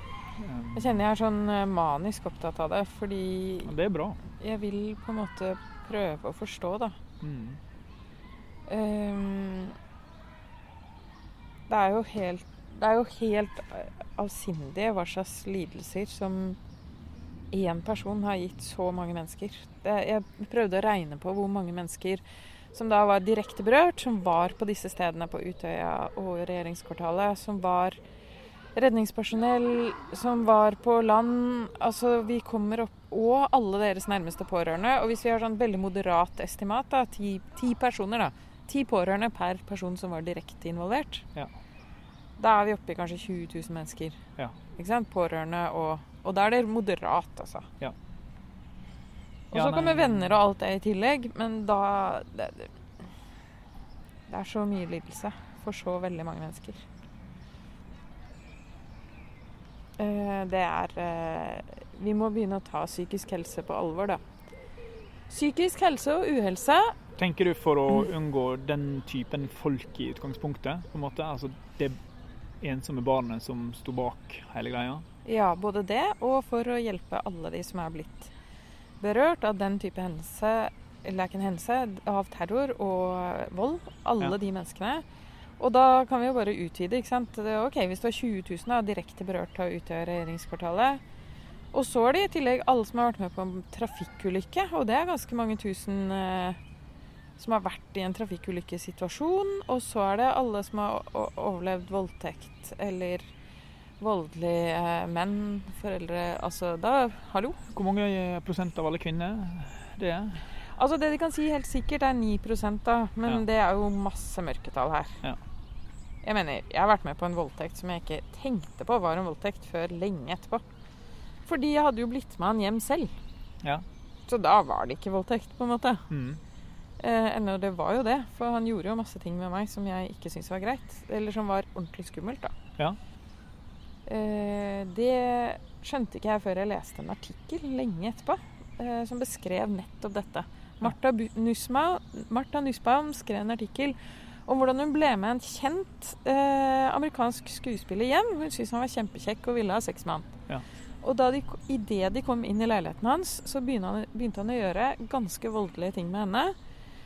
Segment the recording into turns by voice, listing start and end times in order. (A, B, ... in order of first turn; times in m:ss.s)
0:00.4-0:01.0 A
0:00.7-0:03.7 B
0:03.6-0:04.2 A
0:04.4-0:07.0 B
0:07.2-0:07.6 A
0:08.7-0:09.8 B
0:11.7-0:16.6 B
0:17.5-0:28.0 B
0:28.7-0:41.2 B
0:42.4-0:44.2 B
0:44.7-0:47.7 B
0:49.5-0:52.7 B
0:49.5-0:50.4 A
0:54.3-0:56.8 B
1:00.0-1:04.2 B
1:05.3-1:07.0 B
1:07.2-1:12.0 A
1:12.6-1:15.0 A
1:15.2-1:18.3 B
1:19.0-1:25.0 B
1:25.6-1:31.0 B
1:31.7-1:36.6 B
1:37.4-1:43.3 B
1:44.0-1:47.6 B
1:47.7-1:50.4 A
1:50.7-1:55.2 B
1:56.2-2:00.6 B
2:01.4-2:03.1 B
2:04.3-2:06.1 B
2:06.1-2:06.4 A
2:07.0-2:12.5 B
2:14.1-2:30.3 B
2:31.0-2:36.5 B